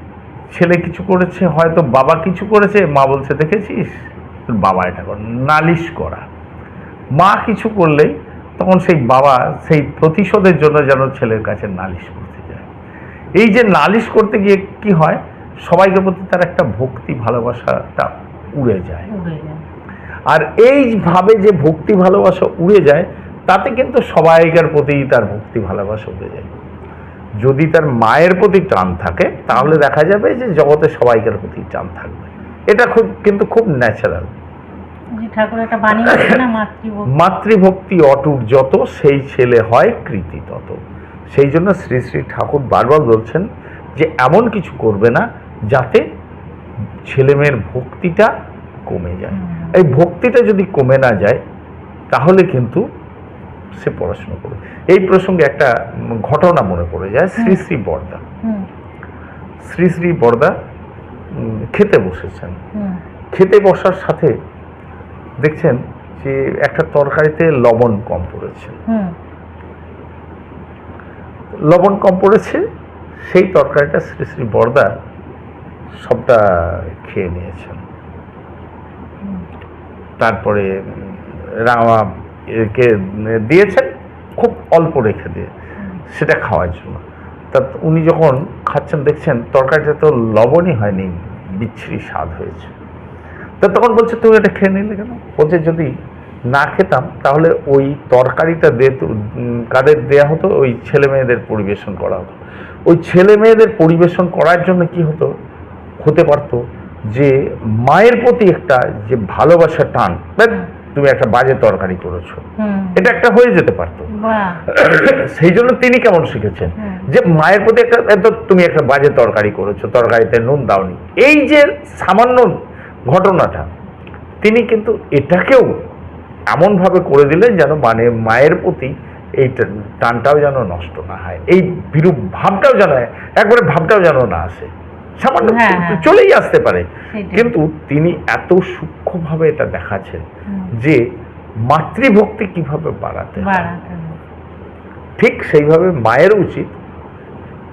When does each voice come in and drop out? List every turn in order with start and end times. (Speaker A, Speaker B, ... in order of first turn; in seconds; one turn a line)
Speaker A: 0.5-6.3
Speaker A: 7.2-12.7
Speaker A: 13.4-19.1
Speaker B: 19.1-19.6
Speaker A: 20.3-26.5
Speaker A: 27.4-34.3
Speaker B: 29.5-29.8
Speaker B: 35.2-37.1
Speaker A: 36.0-36.4
Speaker A: 37.1-40.8
Speaker A: 41.3-43.5
Speaker A: 44.0-46.0
Speaker A: 47.1-48.3
Speaker A: 48.9-51.4
Speaker B: 49.3-49.8
Speaker A: 52.1-52.8
Speaker A: 53.8-58.2
Speaker B: 57.4-57.6
Speaker A: 59.6-60.5
Speaker A: 61.3-62.5
Speaker A: 63.3-64.3
Speaker A: 65.4-68.8
Speaker B: 68.9-69.1
Speaker A: 71.5-72.6
Speaker A: 73.2-74.9
Speaker A: 76.0-77.8
Speaker A: 80.2-85.5
Speaker A: 86.1-92.7
Speaker A: 93.6-95.9
Speaker A: 96.5-105.3
Speaker A: 106.0-106.6
Speaker A: 107.1-112.5
Speaker B: 112.6-113.1
Speaker A: 113.0-114.1
Speaker B: 114.2-114.7
Speaker A: 114.7-122.5
Speaker B: 116.8-117.1
Speaker A: 123.1-123.7
Speaker A: 124.4-125.7
Speaker A: 126.5-141.0
Speaker B: 135.4-136.1
Speaker B: 137.1-137.5
Speaker A: 141.7-143.7
Speaker B: 143.4-144.2
Speaker A: 145.2-146.8